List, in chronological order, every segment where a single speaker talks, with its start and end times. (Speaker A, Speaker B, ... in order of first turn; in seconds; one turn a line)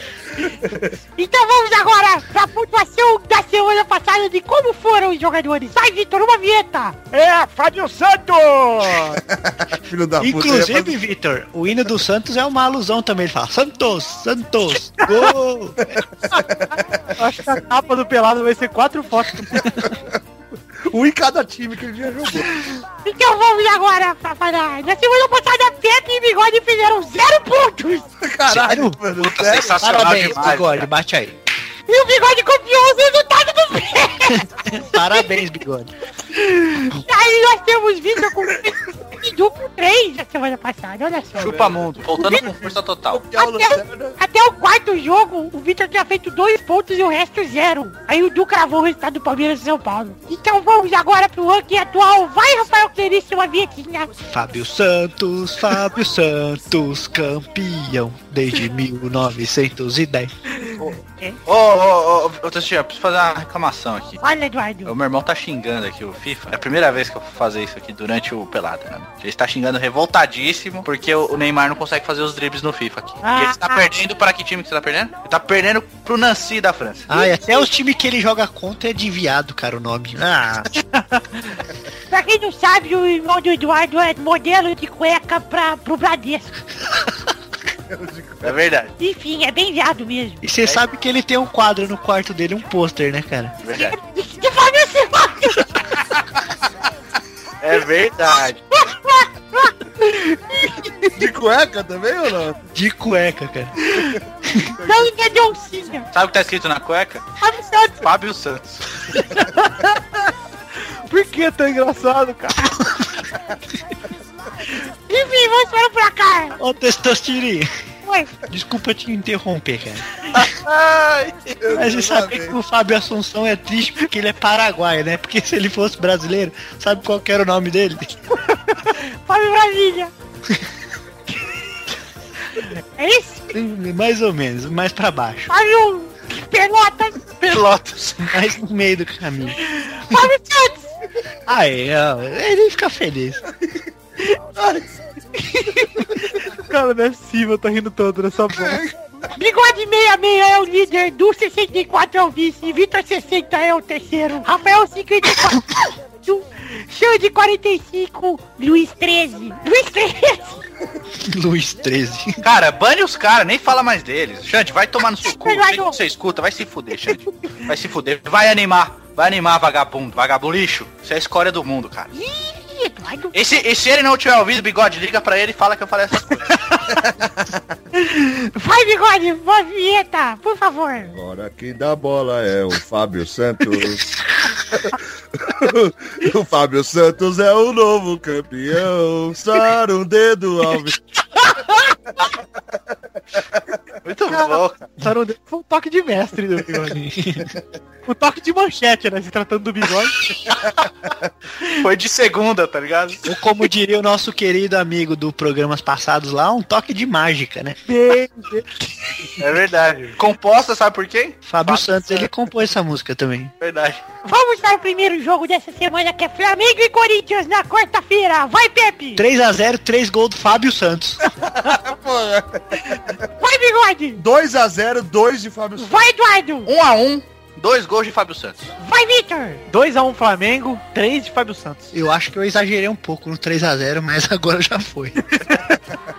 Speaker A: 0.4-0.9
Speaker B: 1.1-7.0
Speaker C: 7.1-9.2
Speaker A: 9.1-11.0
Speaker D: 10.2-15.9
Speaker A: 15.9-17.1
Speaker C: 17.2-19.8
Speaker A: 19.6-20.2
Speaker A: 20.9-22.5
Speaker B: 23.0-28.1
Speaker A: 28.2-30.1
Speaker D: 28.5-29.0
Speaker E: 29.1-30.9
Speaker D: 29.8-31.3
Speaker B: 31.9-34.5
Speaker D: 34.3-35.9
Speaker B: 35.0-35.3
Speaker B: 36.8-42.5
Speaker E: 41.3-43.3
Speaker A: 42.2-44.2
Speaker B: 43.3-54.1
Speaker D: 54.2-60.3
Speaker B: 60.6-61.4
Speaker E: 61.5-64.2
Speaker B: 64.2-64.9
Speaker E: 64.8-77.1
Speaker B: 73.2-73.8
Speaker D: 77.1-80.7
Speaker B: 77.1-77.7
Speaker C: 81.0-81.2
Speaker B: 82.1-86.6
Speaker A: 87.9-88.6
Speaker E: 88.4-88.9
Speaker B: 89.0-90.4
Speaker D: 90.4-93.6
Speaker E: 93.6-94.0
Speaker B: 93.7-95.7
Speaker E: 97.6-98.6
Speaker B: 98.7-99.7
Speaker A: 101.1-102.6
Speaker D: 102.7-103.7
Speaker D: 104.5-104.7
Speaker B: 104.8-106.1
Speaker E: 106.1-107.3
Speaker B: 107.4-108.0
Speaker E: 108.0-109.2
Speaker C: 109.3-110.0
Speaker C: 111.1-112.8
Speaker B: 115.1-116.6
Speaker D: 116.6-117.7
Speaker B: 118.0-118.4
Speaker D: 118.5-120.0
Speaker E: 120.3-121.6
Speaker A: 121.6-122.6
Speaker D: 121.7-128.1
Speaker B: 128.7-130.1
Speaker B: 132.9-133.5
Speaker D: 133.5-135.5
Speaker B: 135.5-137.2
Speaker E: 137.4-138.3
Speaker D: 138.2-139.6
Speaker B: 139.9-140.9
Speaker D: 141.5-143.4
Speaker A: 144.6-144.8
Speaker C: 146.4-148.8
Speaker A: 148.5-148.9
Speaker B: 149.3-160.6
Speaker D: 161.2-162.4
Speaker E: 162.4-172.1
Speaker B: 165.2-166.0
Speaker B: 167.1-167.6
Speaker B: 172.1-173.3
Speaker E: 173.3-176.8
Speaker A: 176.9-177.7
Speaker B: 177.9-181.1
Speaker A: 181.1-184.1
Speaker A: 184.7-191.0
Speaker A: 193.3-193.7
Speaker E: 194.0-194.8
Speaker C: 194.3-197.0
Speaker D: 196.9-197.5
Speaker C: 198.1-200.2
Speaker E: 201.6-203.2
Speaker D: 203.3-207.8
Speaker C: 207.9-209.4
Speaker E: 209.4-212.3
Speaker D: 211.4-213.5
Speaker E: 213.6-214.0
Speaker B: 214.2-219.2
Speaker D: 219.2-221.3
Speaker A: 221.4-223.1
Speaker B: 223.4-224.2
Speaker A: 224.2-226.0
Speaker B: 225.8-226.7
Speaker E: 226.7-228.7
Speaker B: 228.8-229.6
Speaker C: 229.7-231.9
Speaker D: 231.9-235.2